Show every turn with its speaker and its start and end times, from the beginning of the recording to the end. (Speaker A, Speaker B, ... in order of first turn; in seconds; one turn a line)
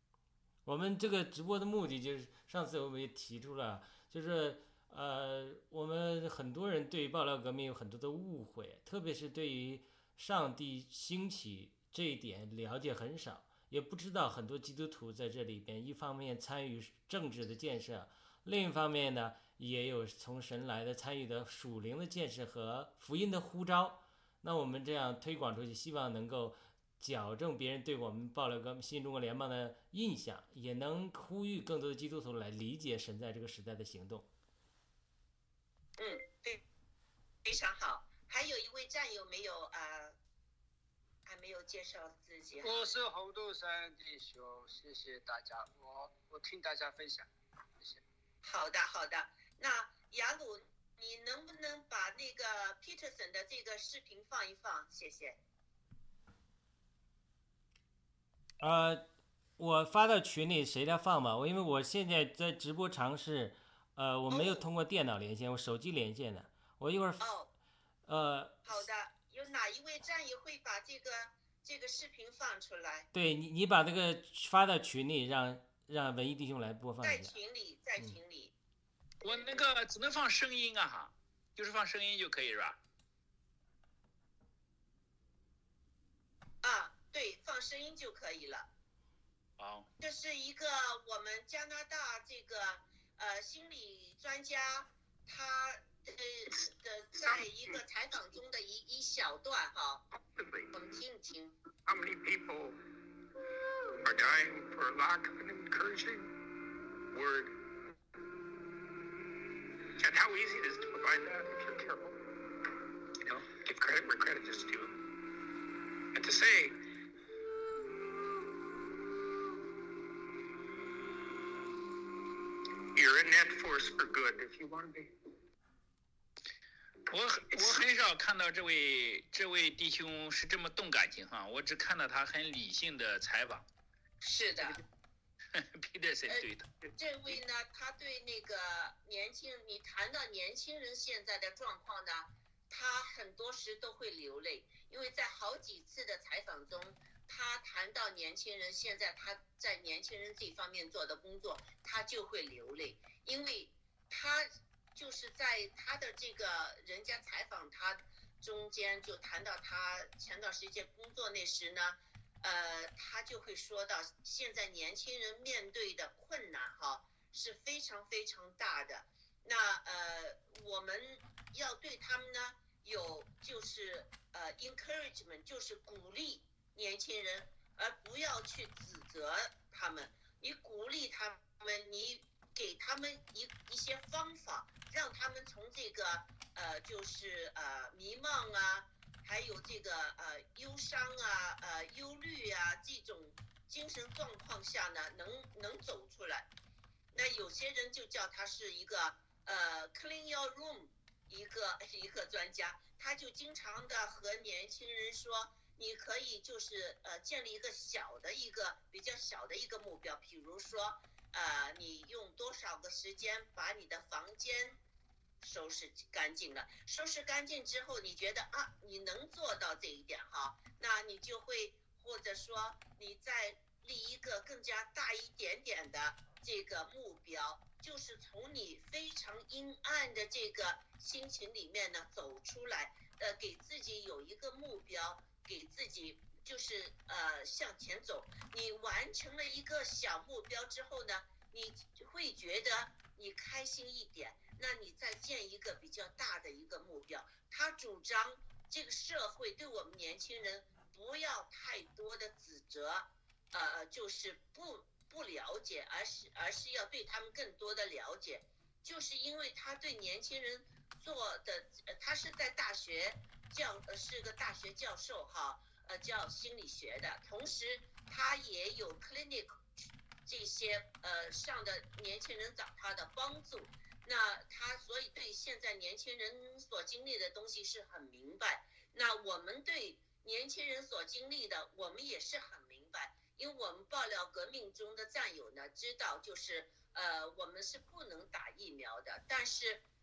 Speaker A: 0.7-34.3
Speaker B: 36.0-36.6
Speaker B: 37.4-40.1
Speaker B: 41.2-42.9
Speaker C: 42.6-48.0
Speaker B: 48.4-55.4
Speaker A: 58.6-59.1
Speaker A: 59.6-67.2
Speaker B: 64.3-64.6
Speaker B: 67.2-67.5
Speaker A: 68.0-68.7
Speaker B: 68.6-73.1
Speaker A: 73.1-77.4
Speaker B: 77.0-78.5
Speaker D: 79.2-82.8
Speaker B: 79.2-79.6
Speaker B: 86.6-88.7
Speaker D: 89.6-89.9
Speaker B: 90.0-100.0
Speaker E: 97.2-97.4
Speaker E: 100.2-100.7
Speaker B: 100.7-101.6
Speaker E: 101.8-102.8
Speaker E: 104.0-106.3
Speaker E: 107.1-107.7
Speaker E: 110.0-112.2
Speaker E: 113.2-115.0
Speaker E: 116.1-116.8
Speaker E: 122.9-125.1
Speaker D: 127.1-133.7
Speaker B: 134.2-134.8
Speaker D: 135.5-137.4
Speaker B: 136.3-196.5
Speaker B: 197.1-214.8
Speaker B: 215.4-269.7
Speaker B: 270.2-289.8